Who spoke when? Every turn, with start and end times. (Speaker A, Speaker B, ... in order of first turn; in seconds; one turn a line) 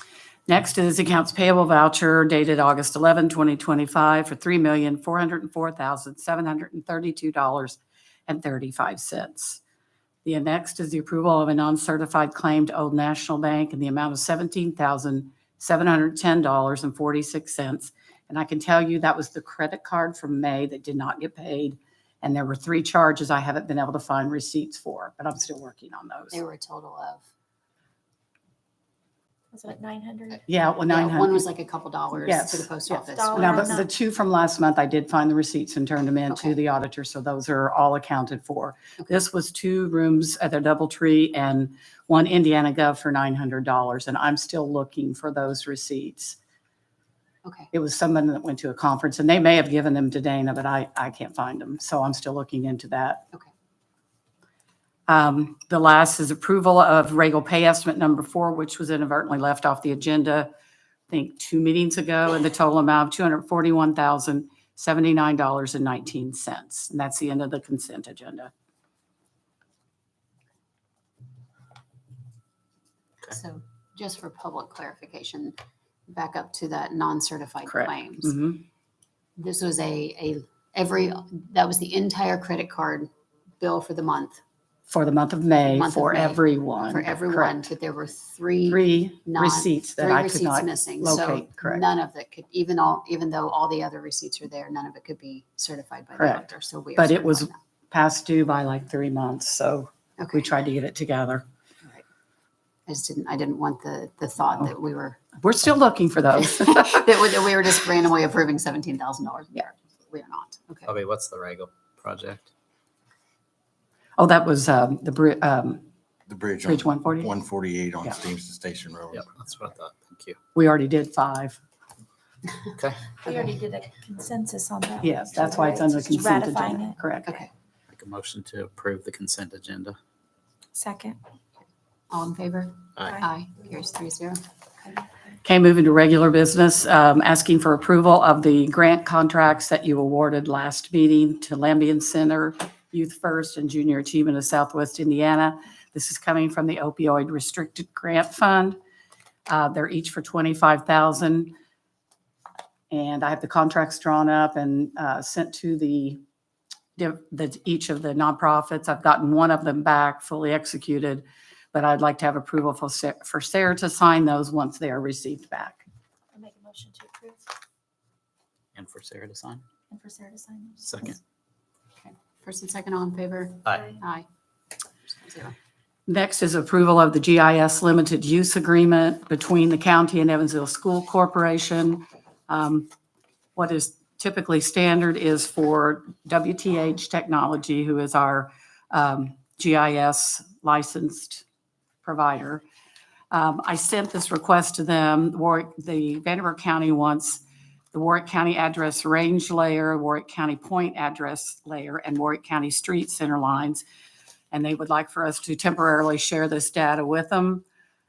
Speaker A: 0.5-9.6
Speaker A: 10.2-26.4
Speaker B: 26.3-27.2
Speaker C: 29.5-30.4
Speaker A: 30.5-31.5
Speaker B: 30.9-33.8
Speaker A: 32.2-46.4
Speaker C: 33.0-33.9
Speaker A: 47.7-53.2
Speaker A: 55.1-60.5
Speaker A: 61.1-68.5
Speaker B: 73.3-75.5
Speaker B: 76.1-78.3
Speaker A: 77.7-78.6
Speaker B: 79.4-84.4
Speaker A: 84.9-87.6
Speaker B: 85.7-97.5
Speaker A: 88.7-91.8
Speaker A: 96.2-96.4
Speaker A: 97.0-101.4
Speaker B: 100.2-100.5
Speaker B: 102.9-105.2
Speaker A: 105.4-107.0
Speaker B: 106.6-110.9
Speaker D: 110.9-112.5
Speaker A: 114.2-115.8
Speaker E: 116.3-119.2
Speaker A: 116.6-117.3
Speaker D: 119.1-120.4
Speaker A: 120.5-121.6
Speaker D: 122.7-123.2
Speaker C: 123.2-127.4
Speaker A: 125.0-127.3
Speaker D: 127.9-130.0
Speaker C: 130.8-131.2
Speaker B: 132.1-134.4
Speaker A: 135.4-148.8
Speaker A: 149.5-151.5
Speaker A: 152.9-156.2
Speaker A: 157.0-165.8
Speaker C: 166.3-167.4
Speaker D: 168.8-169.7
Speaker C: 169.9-170.9
Speaker D: 170.8-171.2
Speaker B: 172.0-174.3
Speaker B: 175.0-175.5
Speaker A: 176.1-182.9
Speaker A: 183.6-191.4
Speaker A: 192.0-192.6
Speaker A: 193.3-197.4
Speaker A: 197.9-203.8
Speaker A: 204.5-207.6